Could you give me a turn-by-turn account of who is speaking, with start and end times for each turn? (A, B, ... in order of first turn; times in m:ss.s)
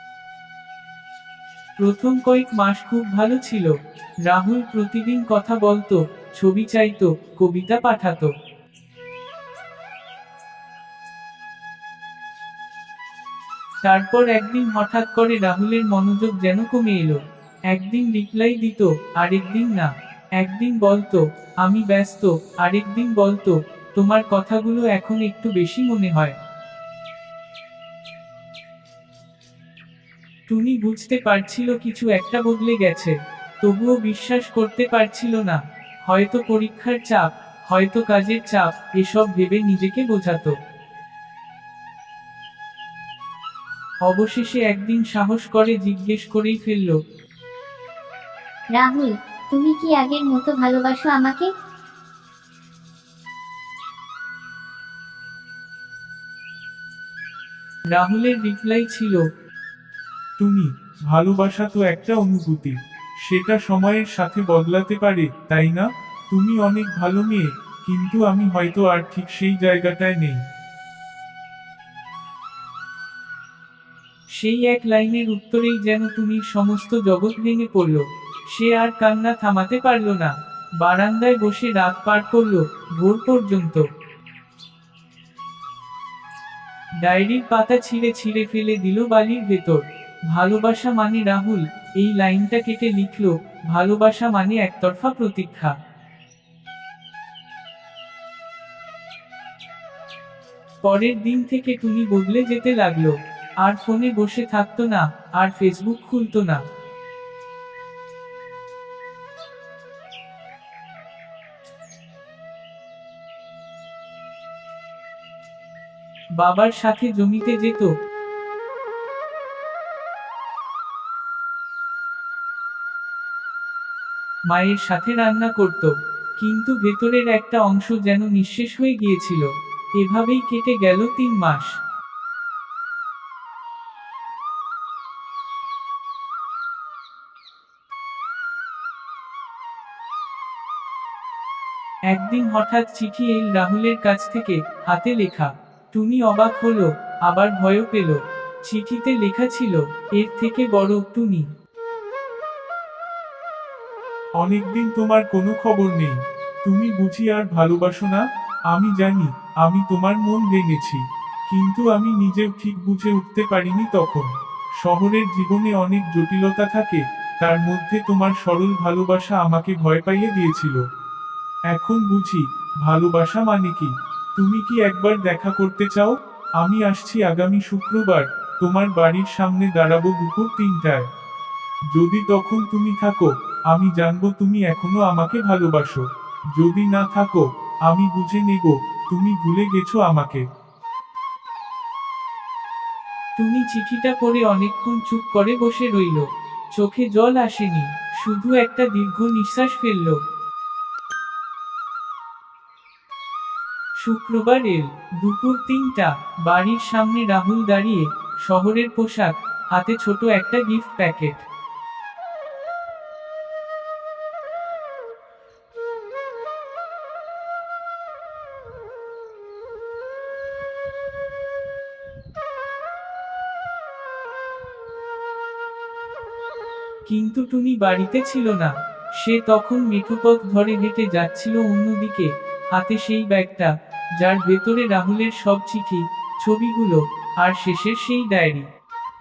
0:01.8-0:08.3 A
0:13.8-0:26.4 A
0:30.5-0:40.6 A
0:44.0-0:47.0 A
0:48.7-0:51.5 B
0:57.9-0:59.2 A
1:00.5-1:02.7 C
1:03.3-1:05.8 C
1:03.4-1:03.8 A
1:04.6-1:04.9 A
1:06.3-1:10.4 C
1:14.4-1:23.8 A
1:27.0-1:35.7 A
1:40.8-1:46.6 A
1:56.4-1:57.9 A
2:04.5-2:09.5 A
2:10.0-2:11.7 A
2:22.1-2:31.5 A
2:34.4-2:36.1 C
2:36.7-2:38.2 C
2:36.7-2:38.0 A
2:38.7-2:41.0 C
2:41.5-2:43.0 A
2:41.5-2:44.3 C
2:43.8-2:44.1 A
2:44.8-2:49.9 C
2:44.9-2:45.8 A
2:47.4-2:50.7 A
2:51.7-2:53.8 A
2:52.0-2:52.4 C
2:52.9-2:53.9 C
2:54.4-2:56.1 A
2:55.0-2:56.1 C
2:56.6-3:01.0 A
2:56.9-2:59.6 C
3:01.9-3:06.0 C
3:02.2-3:03.1 A
3:04.6-3:05.8 A
3:06.6-3:10.4 C
3:08.0-3:08.2 A
3:13.4-3:20.2 A
3:24.0-3:31.4 A
3:47.1-3:58.7 A